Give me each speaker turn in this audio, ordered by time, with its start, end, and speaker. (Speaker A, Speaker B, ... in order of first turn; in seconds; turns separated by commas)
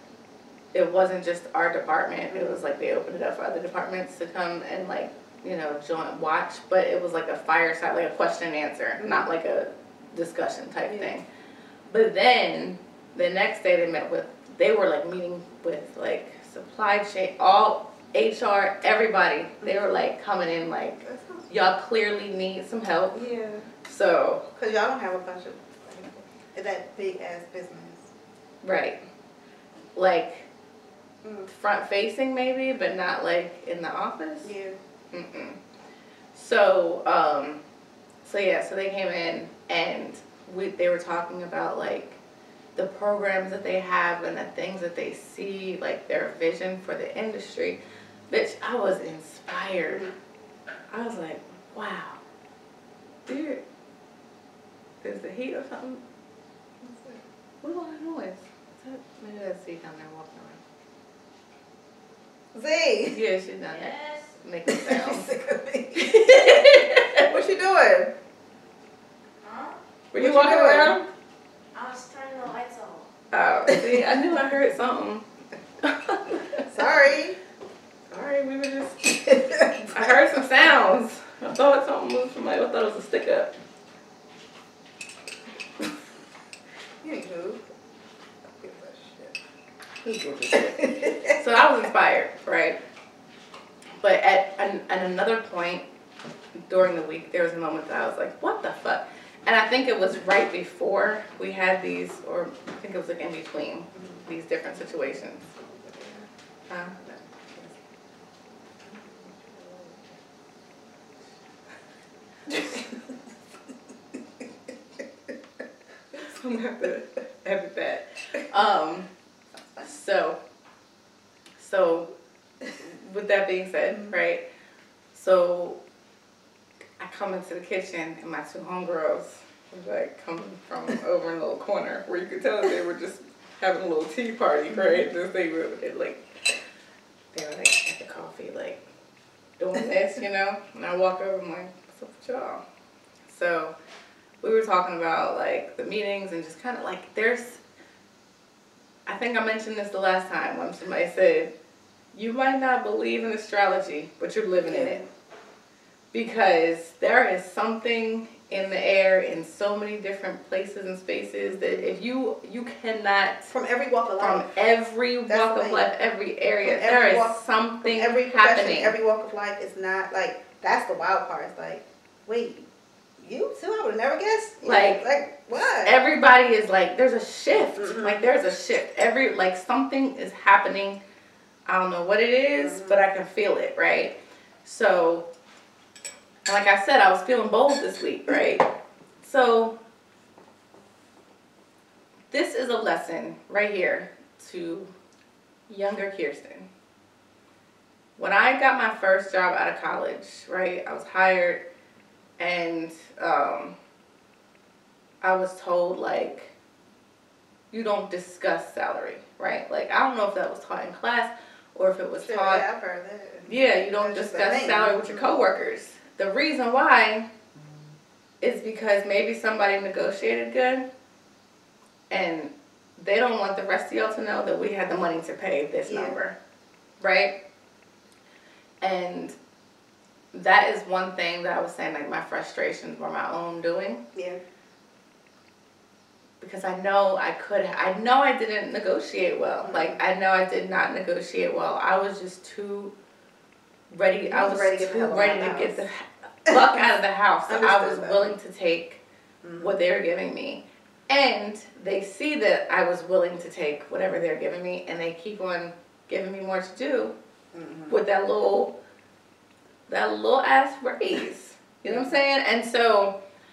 Speaker A: 0.7-11.2, Speaker B: 2.3-2.6, Speaker B: 9.0-9.3, Speaker B: 10.9-11.1, Speaker A: 11.9-23.3, Speaker B: 21.0-21.4, Speaker B: 23.1-23.7, Speaker A: 23.8-24.4, Speaker B: 24.6-28.1, Speaker A: 28.6-29.0, Speaker A: 30.0-30.5, Speaker B: 31.2-31.5, Speaker A: 31.5-34.5, Speaker B: 34.4-34.8, Speaker A: 35.1-35.6, Speaker A: 36.3-37.6, Speaker A: 38.2-42.2, Speaker A: 42.8-50.1, Speaker B: 49.9-50.1, Speaker A: 50.9-52.2, Speaker A: 53.3-53.6, Speaker A: 55.0-56.0, Speaker B: 56.8-57.2, Speaker A: 57.6-60.6, Speaker B: 62.5-63.2, Speaker A: 63.1-65.3, Speaker C: 63.7-64.3, Speaker B: 64.7-66.3, Speaker A: 66.0-67.3, Speaker B: 67.2-68.1, Speaker C: 69.4-69.8, Speaker A: 70.1-71.1, Speaker B: 70.2-71.0, Speaker C: 71.7-73.1, Speaker A: 73.3-75.2, Speaker B: 73.7-74.0, Speaker A: 75.8-76.6, Speaker B: 76.7-77.4, Speaker A: 78.1-83.5, Speaker B: 79.3-80.2, Speaker B: 87.0-87.6, Speaker B: 88.6-89.4, Speaker A: 90.0-92.8, Speaker B: 90.5-91.4, Speaker A: 94.0-95.8, Speaker A: 96.7-105.5, Speaker B: 105.6-106.3, Speaker A: 106.7-107.0, Speaker B: 107.0-107.7, Speaker B: 108.8-110.2, Speaker A: 116.1-119.1, Speaker A: 119.8-120.4, Speaker A: 121.6-122.1, Speaker A: 122.7-124.4, Speaker A: 125.1-125.8, Speaker A: 127.0-136.2, Speaker B: 134.7-135.1, Speaker A: 137.3-138.8, Speaker A: 139.6-142.6, Speaker A: 143.2-143.7, Speaker A: 144.4-147.6, Speaker A: 149.1-151.5, Speaker A: 152.1-155.0, Speaker B: 154.6-155.1, Speaker A: 156.1-163.5, Speaker B: 161.4-161.9, Speaker B: 163.5-164.6, Speaker A: 164.2-168.9, Speaker B: 165.3-165.9, Speaker B: 166.6-172.7, Speaker B: 173.2-176.0, Speaker A: 174.6-175.1, Speaker A: 175.8-181.0, Speaker B: 177.8-178.3, Speaker A: 181.7-185.3, Speaker B: 182.6-183.0, Speaker A: 186.5-188.7, Speaker A: 189.2-189.8, Speaker A: 192.3-194.9, Speaker A: 195.7-196.7, Speaker A: 198.2-201.6, Speaker A: 202.4-203.8, Speaker A: 205.2-206.5, Speaker A: 207.7-212.6, Speaker B: 212.2-215.4, Speaker A: 213.5-217.3, Speaker A: 218.4-220.9, Speaker A: 222.1-226.3, Speaker B: 225.9-226.2, Speaker A: 227.0-227.3, Speaker A: 228.8-229.4, Speaker A: 230.3-234.0, Speaker B: 234.2-234.4, Speaker A: 236.4-242.9, Speaker B: 239.6-240.0, Speaker A: 243.9-249.0, Speaker B: 244.3-245.8, Speaker B: 246.5-246.8, Speaker B: 247.5-248.3, Speaker B: 249.4-249.8, Speaker A: 249.6-257.1, Speaker B: 257.5-258.0, Speaker A: 257.9-258.7, Speaker A: 259.9-263.2, Speaker B: 261.9-262.1